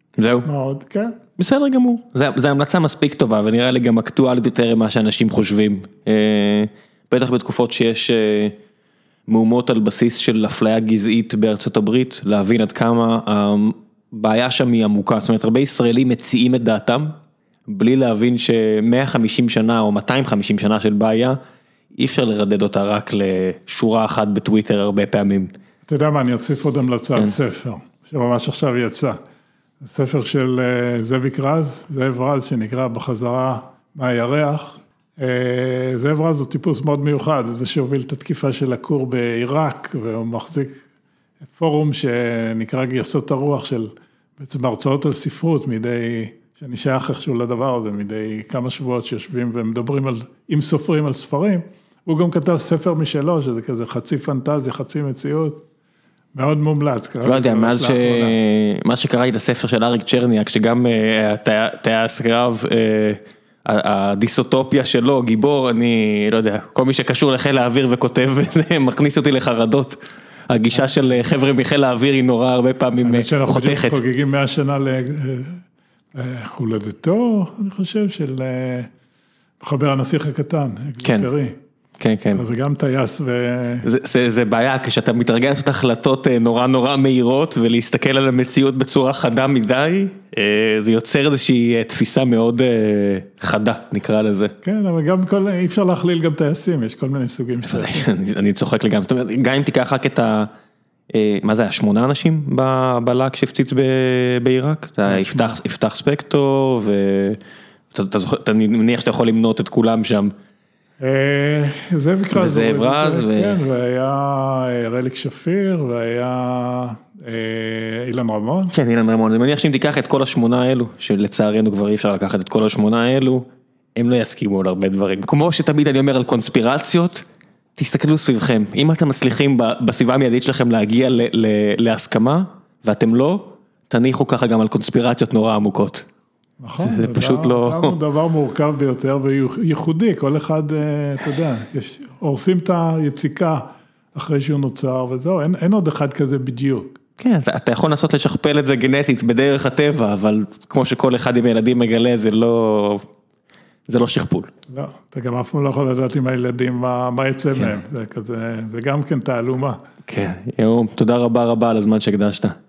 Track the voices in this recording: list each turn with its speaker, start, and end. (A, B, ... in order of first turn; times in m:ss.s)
0:00.2-0:00.5 A
0:00.4-0:01.2 B
0:01.4-0:08.5 A
0:09.3-0:17.1 A
0:17.7-0:21.4 A
0:21.9-0:25.5 A
0:25.8-0:29.2 B
0:29.8-0:40.8 B
0:41.5-0:55.6 B
0:56.3-0:58.4 B
0:57.2-1:14.0 A
1:13.0-1:15.6 B
1:16.1-1:18.9 B
1:19.6-1:21.6 B
1:21.0-1:21.3 A
1:22.0-1:22.4 A
1:22.3-1:23.8 B
1:23.8-1:34.5 A
1:34.6-1:38.1 B
1:37.6-1:40.5 A
1:41.1-1:47.4 A
1:45.0-1:45.6 B
1:47.9-1:50.3 A
1:51.0-1:58.7 B
1:52.3-1:53.6 A
1:58.7-2:07.2 A
2:07.8-2:16.0 A
2:16.6-2:27.0 B
2:16.8-2:18.0 A
2:27.2-2:33.0 A
2:33.9-2:34.5 A
2:34.7-2:39.8 B
2:40.0-2:42.6 A